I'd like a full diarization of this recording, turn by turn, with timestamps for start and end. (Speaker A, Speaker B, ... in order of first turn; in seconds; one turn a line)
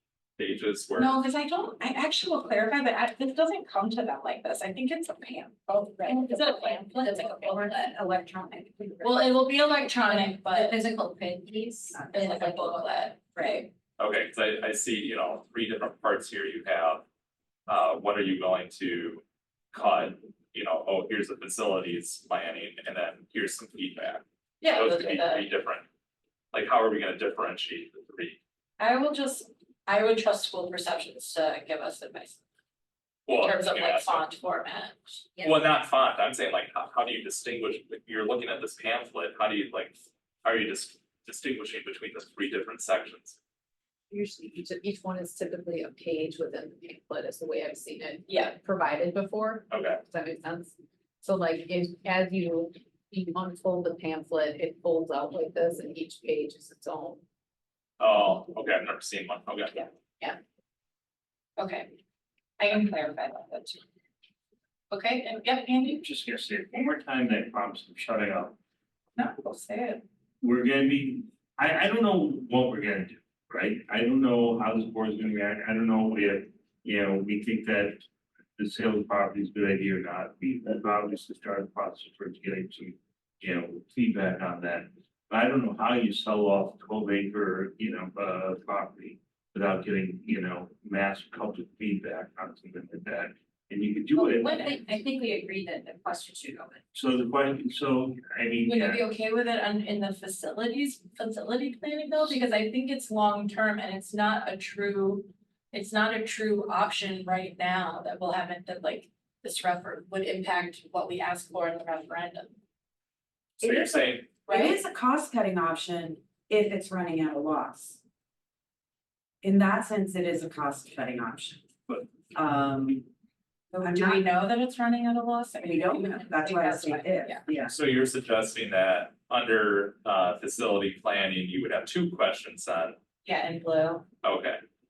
Speaker A: 0.4-1.2
Speaker B: 1.0-7.9
Speaker C: 5.8-7.5
Speaker D: 7.3-9.2
Speaker B: 9.0-10.8
Speaker C: 10.0-13.1
Speaker D: 11.9-12.3
Speaker B: 12.1-13.7
Speaker D: 13.3-13.6
Speaker A: 14.0-17.0
Speaker A: 17.7-25.8
Speaker B: 24.6-25.4
Speaker A: 26.5-28.4
Speaker B: 28.8-32.4
Speaker A: 33.2-34.2
Speaker B: 33.3-35.2
Speaker C: 35.4-35.8
Speaker A: 35.4-43.4
Speaker C: 44.1-57.2
Speaker A: 49.7-50.0
Speaker A: 58.0-59.9
Speaker B: 61.6-61.9
Speaker B: 62.6-63.8
Speaker B: 64.9-66.0
Speaker E: 66.0-68.6
Speaker B: 69.2-70.0
Speaker E: 70.4-78.0
Speaker E: 78.6-94.8
Speaker C: 94.1-96.8
Speaker B: 94.4-94.7
Speaker E: 96.9-99.0
Speaker B: 98.7-112.5
Speaker A: 113.6-114.3
Speaker D: 113.6-118.0
Speaker B: 114.5-114.8
Speaker D: 119.4-123.1
Speaker B: 123.7-127.4
Speaker D: 123.8-124.3
Speaker D: 125.6-127.7
Speaker A: 127.7-132.9
Speaker B: 133.2-134.0
Speaker A: 134.2-134.6